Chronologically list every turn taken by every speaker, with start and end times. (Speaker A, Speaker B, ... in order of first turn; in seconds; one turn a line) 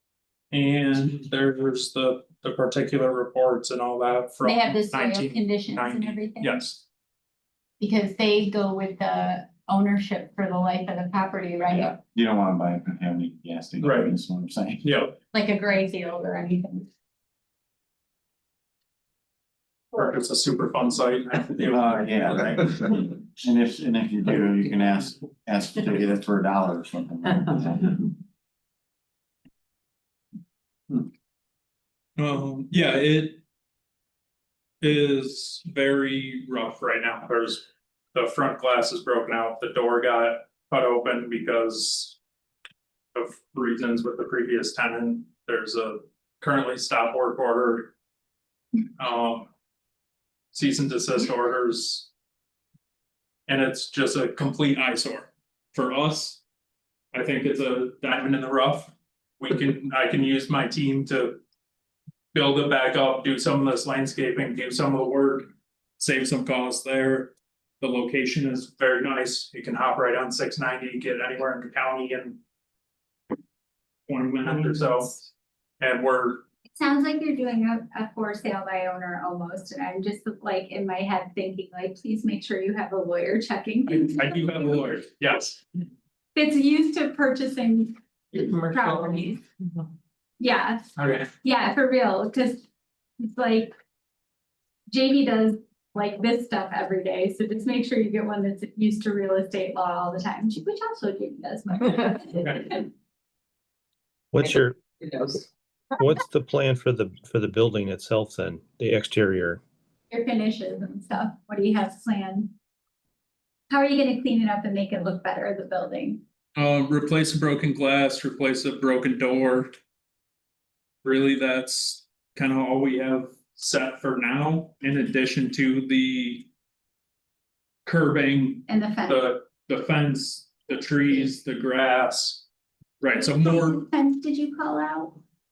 Speaker A: 0.5-6.8
Speaker B: 4.4-6.6
Speaker B: 7.8-12.0
Speaker C: 11.7-14.9
Speaker A: 13.8-14.1
Speaker A: 14.8-15.1
Speaker B: 15.3-16.9
Speaker A: 19.9-22.4
Speaker C: 21.6-28.1
Speaker A: 32.2-33.4
Speaker A: 34.8-42.2
Speaker A: 43.1-47.9
Speaker A: 49.0-49.5
Speaker A: 50.5-52.1
Speaker A: 53.5-56.4
Speaker A: 57.1-61.4
Speaker A: 62.3-72.4
Speaker A: 74.1-75.3
Speaker A: 75.8-76.4
Speaker B: 76.7-84.7
Speaker A: 83.9-85.6
Speaker B: 86.3-88.0
Speaker D: 88.3-89.8
Speaker B: 88.7-89.4
Speaker B: 90.4-92.7
Speaker A: 91.0-91.3
Speaker B: 93.2-93.7
Speaker B: 94.9-102.9
Speaker E: 104.3-104.8
Speaker D: 104.4-105.5
Speaker E: 106.0-109.6
Speaker B: 110.1-112.5
Speaker B: 113.7-116.2
Speaker A: 116.5-119.8
Speaker A: 121.0-126.5
Speaker A: 127.8-132.4
Speaker B: 128.7-129.2
Speaker A: 133.0-133.8
Speaker B: 133.4-135.2